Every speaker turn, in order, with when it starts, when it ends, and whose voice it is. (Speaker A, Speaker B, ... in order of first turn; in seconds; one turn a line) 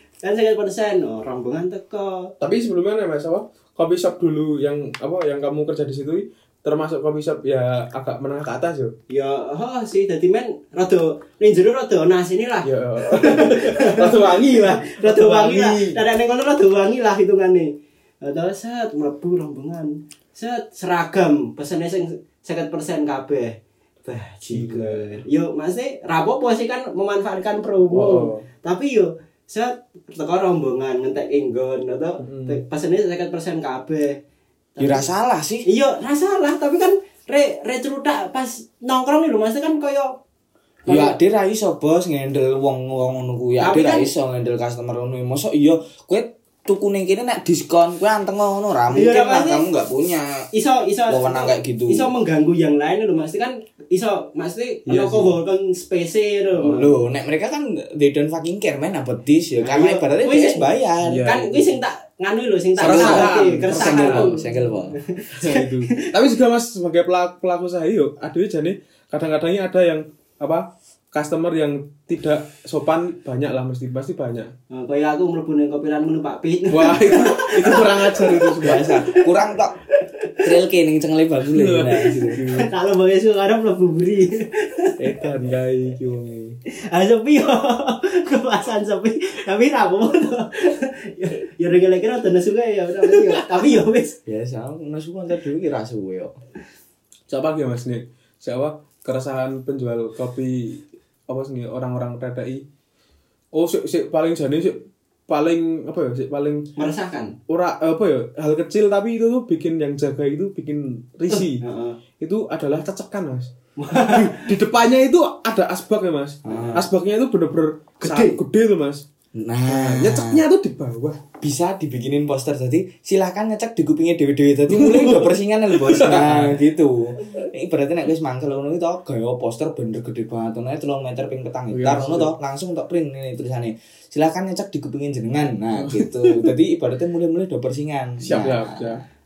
Speaker A: 0.2-2.3
Speaker B: 2.4-8.9
Speaker A: 9.1-34.2
Speaker B: 12.6-16.0
Speaker B: 24.5-25.2
Speaker B: 27.9-28.5
Speaker B: 32.2-32.6
Speaker A: 34.8-35.1
Speaker C: 34.8-35.6
Speaker A: 35.6-40.1
Speaker A: 40.8-41.1
Speaker C: 40.9-50.5
Speaker A: 43.6-44.1
Speaker A: 48.9-49.7
Speaker A: 50.5-56.9
Speaker C: 51.1-52.1
Speaker B: 54.9-55.4
Speaker B: 56.6-56.9
Speaker C: 56.7-61.3
Speaker A: 59.6-60.7
Speaker B: 61.0-61.8
Speaker A: 61.2-66.1
Speaker B: 62.8-64.4
Speaker C: 62.8-65.0
Speaker B: 65.4-74.5
Speaker A: 74.7-79.5
Speaker B: 76.7-79.0
Speaker C: 78.6-79.8
Speaker A: 80.0-80.5
Speaker C: 80.4-82.4
Speaker B: 81.5-82.7
Speaker A: 82.0-85.1
Speaker B: 85.0-86.6
Speaker A: 86.8-94.2
Speaker C: 94.2-96.3
Speaker B: 97.3-102.6
Speaker B: 103.5-106.7
Speaker A: 106.8-107.3
Speaker B: 107.5-111.6
Speaker A: 111.3-112.0
Speaker B: 112.2-119.0
Speaker A: 113.8-114.5
Speaker C: 116.4-116.8
Speaker A: 116.5-116.8
Speaker A: 118.0-118.4
Speaker C: 119.3-120.4
Speaker B: 119.7-121.2
Speaker C: 121.4-139.0
Speaker B: 124.7-126.6
Speaker B: 131.7-132.3
Speaker B: 135.8-136.5
Speaker B: 138.2-139.0